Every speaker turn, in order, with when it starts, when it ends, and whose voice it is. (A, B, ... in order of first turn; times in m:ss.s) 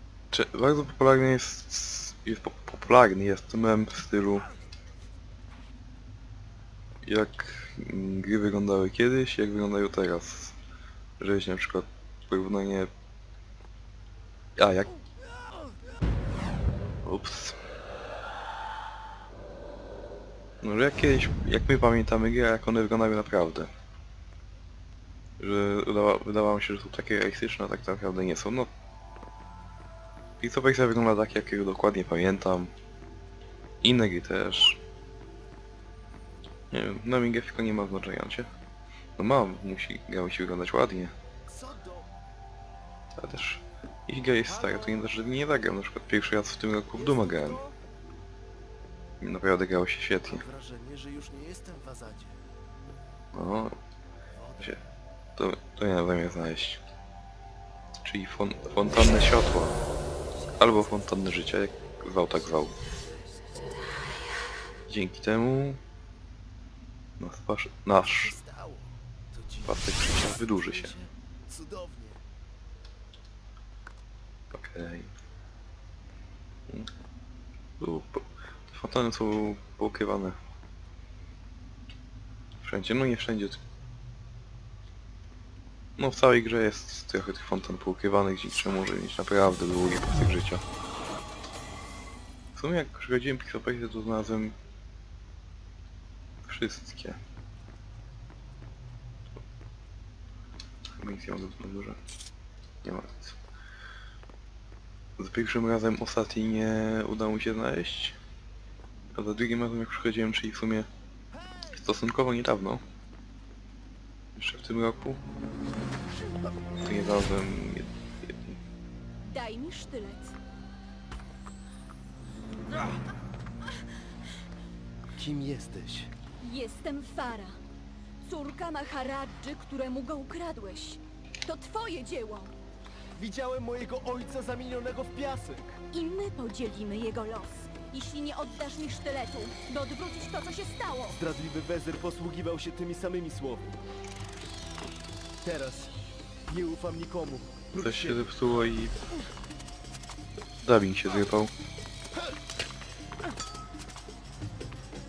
0:00.3-0:04.5 A
0:07.0-0:10.6 A
0:11.2-0:12.9 A
0:14.6-0:14.9 A
0:17.0-0:17.6 A
0:20.6-0:23.7 A
0:25.4-0:28.7 A
0:30.4-0:32.7 A
0:33.8-0:34.8 A
0:36.7-0:38.5 A
0:39.2-0:41.1 A
0:41.5-0:42.1 B
0:43.2-0:47.6 A
0:44.5-0:45.0 B
0:47.0-0:47.8 B
0:49.2-0:50.4 A
0:50.2-0:52.4 B
0:53.3-0:53.8 A
0:54.3-0:54.8 B
0:55.4-0:56.8 A
0:58.0-0:59.8 A
1:00.6-1:02.8 A
1:04.9-1:05.8 A
1:07.2-1:08.4 A
1:08.0-1:12.2 B
1:09.6-1:10.9 A
1:14.5-1:15.1 A
1:17.8-1:20.4 A
1:22.6-1:23.6 A
1:26.0-1:30.6 A
1:32.6-1:34.6 A
1:36.4-1:37.2 A
1:41.0-1:42.0 A
1:42.8-1:43.4 A
1:45.2-1:48.2 A
1:49.1-1:50.9 A
1:51.7-1:52.8 A
1:54.4-1:55.2 A
1:56.8-1:58.6 A
1:59.2-2:00.4 C
2:05.2-2:06.1 B
2:06.4-2:07.6 C
2:08.2-2:12.5 C
2:13.2-2:15.8 B
2:15.9-2:21.2 C
2:21.2-2:23.8 B
2:25.4-2:25.9 B
2:26.5-2:28.2 B
2:27.7-2:29.0 A
2:30.6-2:31.5 A